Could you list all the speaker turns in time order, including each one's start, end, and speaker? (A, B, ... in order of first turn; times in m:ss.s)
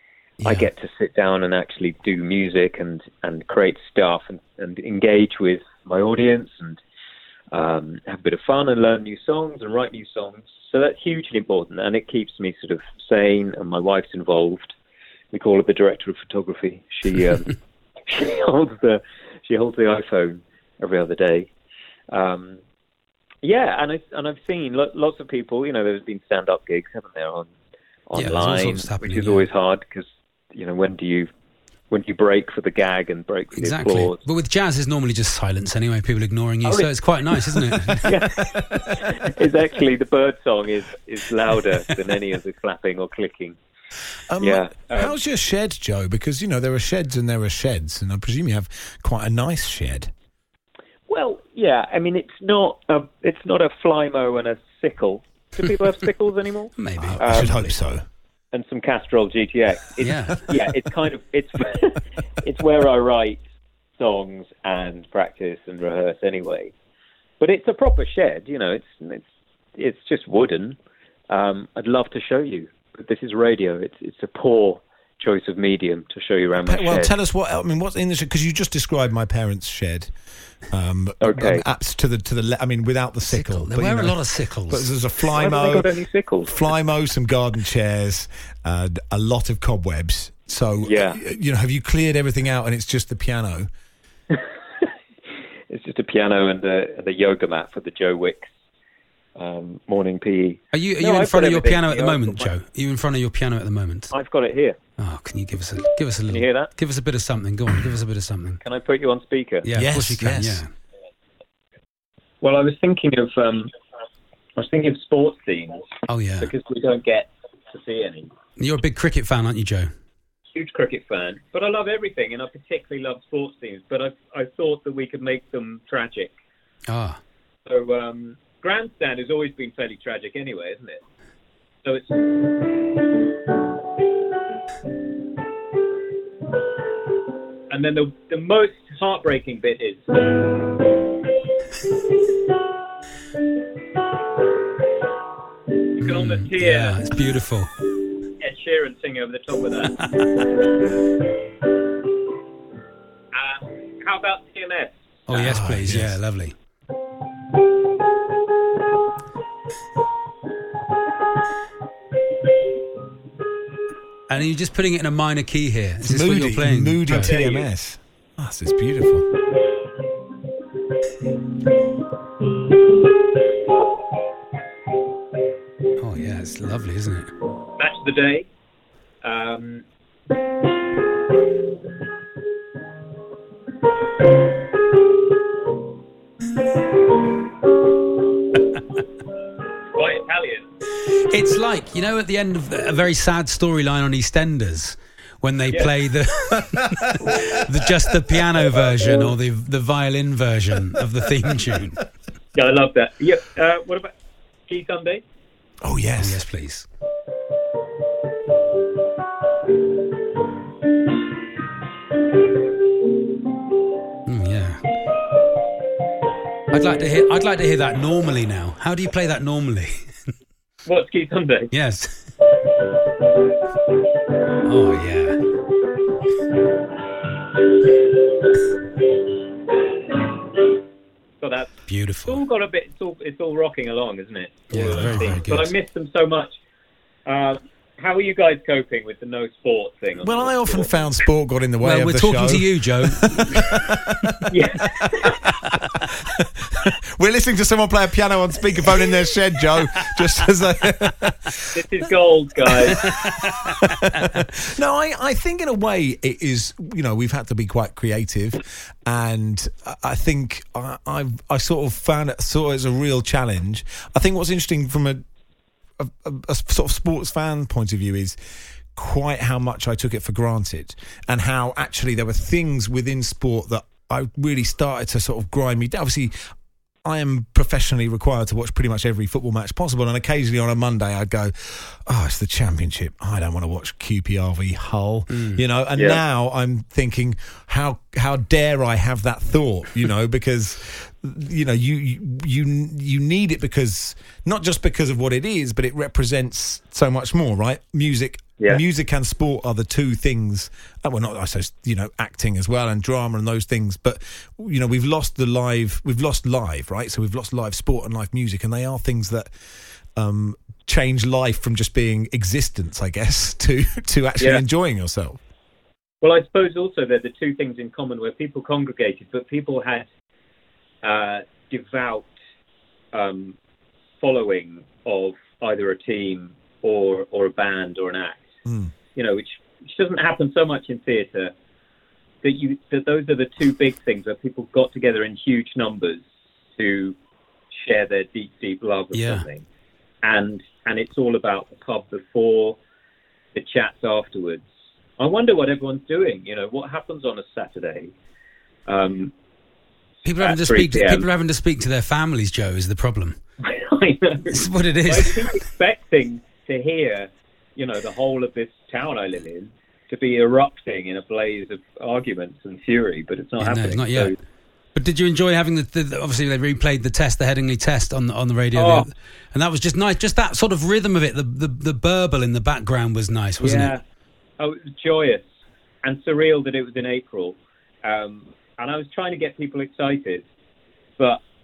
0:00.4-0:00.7 A
0:00.4-0:06.8 B
0:07.5-0:14.7 B
0:15.3-0:21.5 B
0:22.1-0:22.6 B
0:23.4-0:27.5 B
0:28.1-0:31.3 B
0:28.1-0:29.5 A
0:31.9-0:34.2 B
0:33.5-0:38.1 A
0:36.6-0:36.9 B
0:38.0-0:39.1 C
0:38.0-0:43.6 B
0:44.3-0:50.1 C
0:44.4-0:45.2 B
0:51.1-0:57.6 B
0:56.8-0:57.8 A
0:57.0-0:58.0 C
0:58.5-1:03.4 B
1:00.0-1:00.5 A
1:04.0-1:06.7 B
1:07.4-1:10.8 B
1:11.3-1:17.1 B
1:16.6-1:20.1 C
1:20.7-1:25.9 C
1:21.2-1:21.6 B
1:23.2-1:24.9 A
1:25.3-1:26.7 B
1:26.5-1:33.7 C
1:30.8-1:31.2 B
1:35.7-1:38.5 B
1:39.4-1:42.5 B
1:40.7-1:44.1 A
1:44.1-1:44.8 B
1:45.0-1:48.6 A
1:46.3-1:46.7 B
1:48.6-1:49.7 B
1:49.6-1:50.7 A
1:49.7-1:50.6 C
1:52.4-1:53.7 B
1:54.6-1:55.9 B
1:56.1-1:56.5 A
1:56.4-1:58.3 B
1:58.6-1:59.9 A
2:00.5-2:06.3 B
2:06.9-2:07.2 A
2:07.6-2:11.0 B
2:11.8-2:12.2 B
2:17.7-2:20.1 B
2:26.0-2:27.7 A
2:26.0-2:27.0 B
2:28.4-2:30.0 B
2:33.3-2:35.5 B
2:35.3-2:36.5 A
2:35.3-2:36.2 C
2:44.3-2:47.4 A
2:46.0-2:49.3 C
2:47.1-2:47.7 B
2:56.0-2:57.3 A
2:57.8-2:58.5 B
2:59.2-2:59.8 B
3:09.9-3:10.7 B
3:11.3-3:22.0 A
3:16.8-3:17.3 C
3:22.5-3:24.1 B
3:24.7-3:25.2 B
3:25.8-3:26.4 C
3:26.2-3:26.8 A
3:34.2-3:34.8 A
3:36.7-3:40.1 A
3:40.8-3:41.7 B
3:41.7-3:42.3 A
3:44.6-3:45.4 A
3:51.4-3:51.7 B
3:51.9-3:52.4 A
3:52.2-3:56.5 B
3:54.7-3:55.7 A
3:54.8-3:55.4 C
3:57.2-4:01.0 B
4:00.2-4:11.8 C
4:01.8-4:03.9 A
4:04.5-4:05.5 B
4:11.7-4:13.2 B
4:12.7-4:25.2 C
4:13.0-4:14.3 A
4:26.0-4:28.4 C
4:28.9-4:36.4 C
4:37.0-5:09.5 C
4:45.3-4:45.6 A
4:45.9-4:46.2 B
5:10.2-5:15.4 C
5:14.4-5:14.6 B
5:16.2-5:20.1 B
5:21.0-5:22.3 B
5:23.1-5:23.6 B
5:24.2-5:28.5 B
5:29.1-5:31.5 B
5:32.4-5:36.2 B
5:36.8-5:37.2 B
5:37.7-5:39.6 B
5:39.1-5:39.5 A
5:40.2-5:42.8 B
5:43.5-5:44.6 B
5:45.2-5:48.1 B
5:48.8-5:49.3 B
5:50.2-5:53.4 A
5:50.4-5:51.3 B
5:53.6-6:04.3 B
5:54.5-5:55.4 A
6:03.6-6:04.3 A
6:04.9-6:14.0 A
6:08.7-6:09.1 B
6:13.6-6:14.0 B
6:14.6-6:15.5 B
6:16.0-6:20.4 B